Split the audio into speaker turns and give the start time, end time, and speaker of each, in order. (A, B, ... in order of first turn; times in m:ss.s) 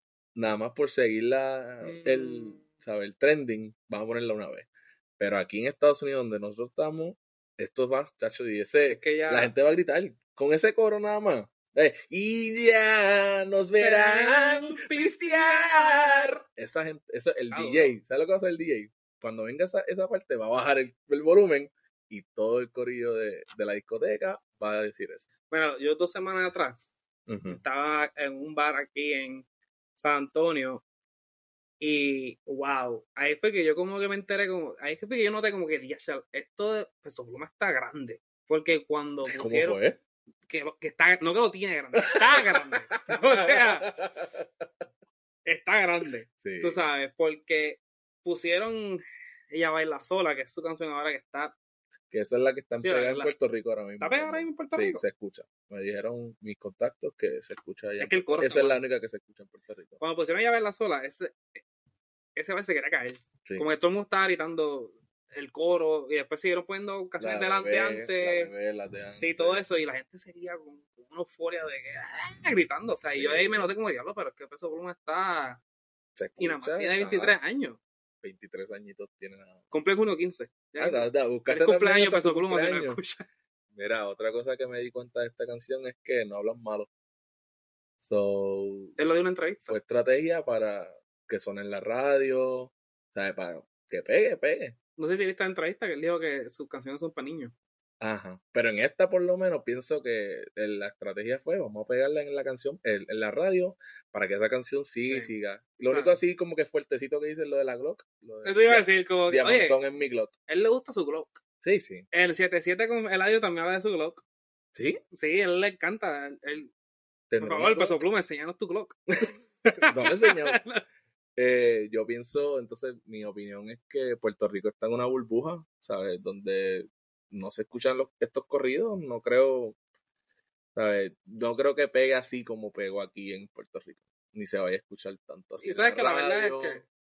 0:00.4-0:04.7 A
0:01.8-0:02.6 B
0:05.2-0:25.2 A
0:08.9-0:09.5 B
0:13.8-0:16.3 B
0:17.5-0:18.0 B
0:25.5-0:26.8 B
0:27.3-0:27.6 A
0:27.5-0:29.4 B
0:30.0-0:30.8 B
0:31.8-0:39.8 B
0:39.2-0:40.0 A
0:40.5-0:43.9 B
0:42.0-0:44.4 A
0:45.4-0:51.5 B
0:46.4-0:46.8 A
0:52.1-1:00.0 A
0:52.8-0:53.3 B
0:54.0-0:55.0 B
0:58.0-0:58.8 B
1:00.0-1:01.6 B
1:02.4-1:08.5 B
1:07.2-1:09.6 A
1:09.1-1:15.6 B
1:13.1-1:13.7 A
1:16.2-1:17.4 A
1:16.4-1:17.8 B
1:18.2-1:19.6 A
1:19.7-1:23.2 B
1:20.8-1:23.0 A
1:23.7-1:26.9 A
1:28.0-1:29.0 A
1:29.0-1:29.8 B
1:29.7-1:34.8 A
1:35.0-1:37.5 B
1:38.0-1:50.3 A
1:45.1-1:45.3 B
1:45.8-1:46.2 B
1:48.4-1:49.8 B
1:50.5-1:51.4 B
1:51.6-1:52.1 A
1:52.1-1:54.2 B
1:54.7-1:55.0 A
1:55.1-1:56.7 B
1:57.3-1:58.0 A
1:57.4-1:59.0 B
1:59.6-2:00.8 B
1:59.9-2:00.6 A
2:01.4-2:09.8 A
2:10.7-2:16.8 A
2:15.6-2:16.8 B